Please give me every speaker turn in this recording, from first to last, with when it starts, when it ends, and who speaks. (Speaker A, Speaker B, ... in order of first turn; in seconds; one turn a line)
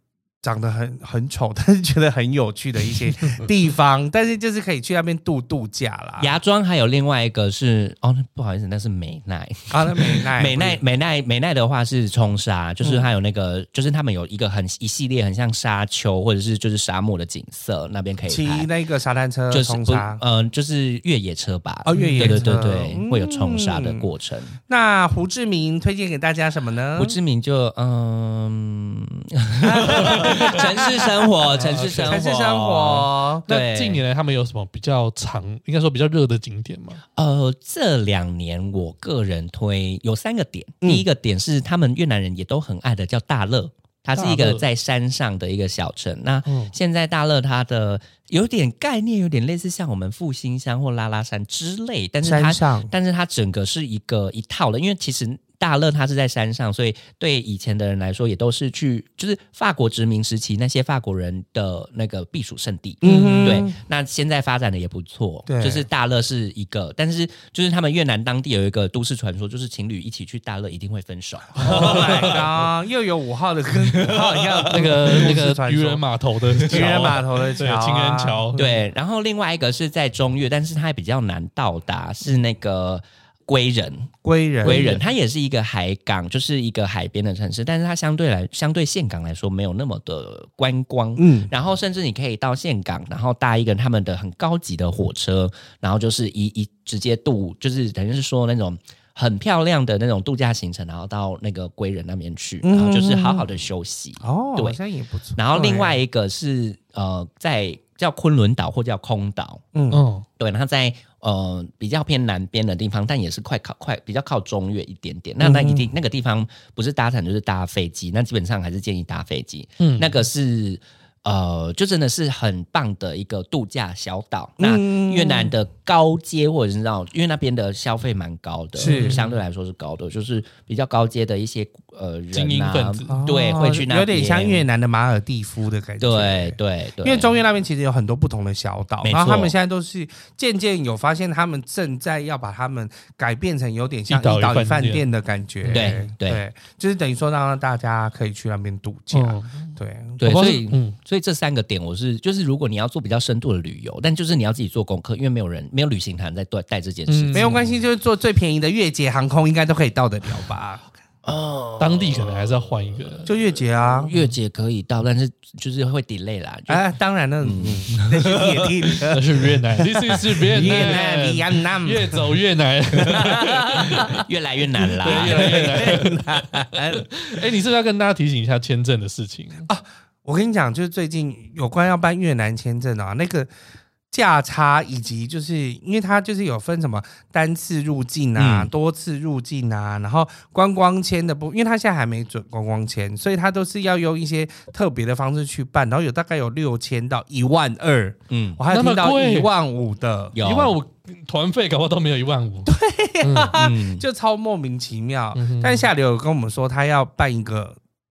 Speaker A: 0.4-6.3
Speaker B: 6.2-18.7
Speaker A: 9.7-10.8
Speaker A: 18.2-20.2
Speaker B: 19.5-24.6
Speaker A: 21.9-24.1
Speaker C: 21.9-22.5
Speaker A: 24.7-27.1
Speaker B: 26.9-34.0
Speaker A: 29.6-31.3
Speaker C: 29.9-30.6
Speaker C: 31.5-32.2
Speaker A: 31.9-33.5
Speaker C: 33.5-37.0
Speaker B: 37.1-72.4
Speaker C: 44.1-44.6
Speaker C: 46.4-46.7
Speaker A: 52.2-52.9
Speaker A: 63.0-63.8
Speaker C: 63.0-63.6
Speaker A: 65.5-65.8
Speaker A: 71.5-76.0
Speaker C: 71.6-72.4
Speaker B: 73.9-75.0
Speaker C: 74.7-78.6
Speaker A: 76.6-78.8
Speaker B: 78.5-104.8
Speaker A: 84.2-85.0
Speaker C: 84.7-85.0
Speaker A: 91.2-91.5
Speaker A: 102.6-103.5
Speaker A: 104.2-106.0
Speaker B: 105.3-109.6
Speaker A: 109.7-110.0
Speaker C: 109.9-110.2
Speaker B: 110.4-134.7
Speaker A: 115.4-115.9
Speaker C: 119.8-120.1
Speaker A: 124.6-125.5
Speaker A: 128.8-129.2
Speaker C: 128.9-129.3
Speaker C: 132.3-133.2
Speaker A: 133.1-150.6
Speaker B: 136.0-137.4
Speaker B: 139.0-139.5
Speaker C: 144.1-145.1
Speaker C: 145.6-146.1
Speaker B: 145.7-146.4
Speaker C: 149.1-150.9
Speaker B: 150.2-157.8
Speaker C: 157.1-157.6
Speaker A: 157.3-160.8
Speaker B: 161.2-162.6
Speaker C: 161.8-163.3
Speaker A: 163.3-164.1
Speaker B: 164.0-166.8
Speaker A: 166.7-169.3
Speaker B: 167.4-168.8
Speaker C: 169.1-174.2
Speaker A: 170.1-172.2
Speaker A: 173.1-174.0
Speaker B: 174.1-176.0
Speaker A: 175.0-177.1
Speaker C: 175.0-176.2
Speaker C: 177.1-179.7
Speaker A: 179.7-183.5
Speaker A: 184.1-200.3
Speaker B: 188.3-188.7
Speaker B: 198.3-198.6
Speaker C: 198.7-199.5
Speaker B: 200.3-200.8
Speaker C: 200.4-203.5
Speaker A: 202.7-207.8
Speaker B: 203.5-204.0
Speaker C: 205.3-205.9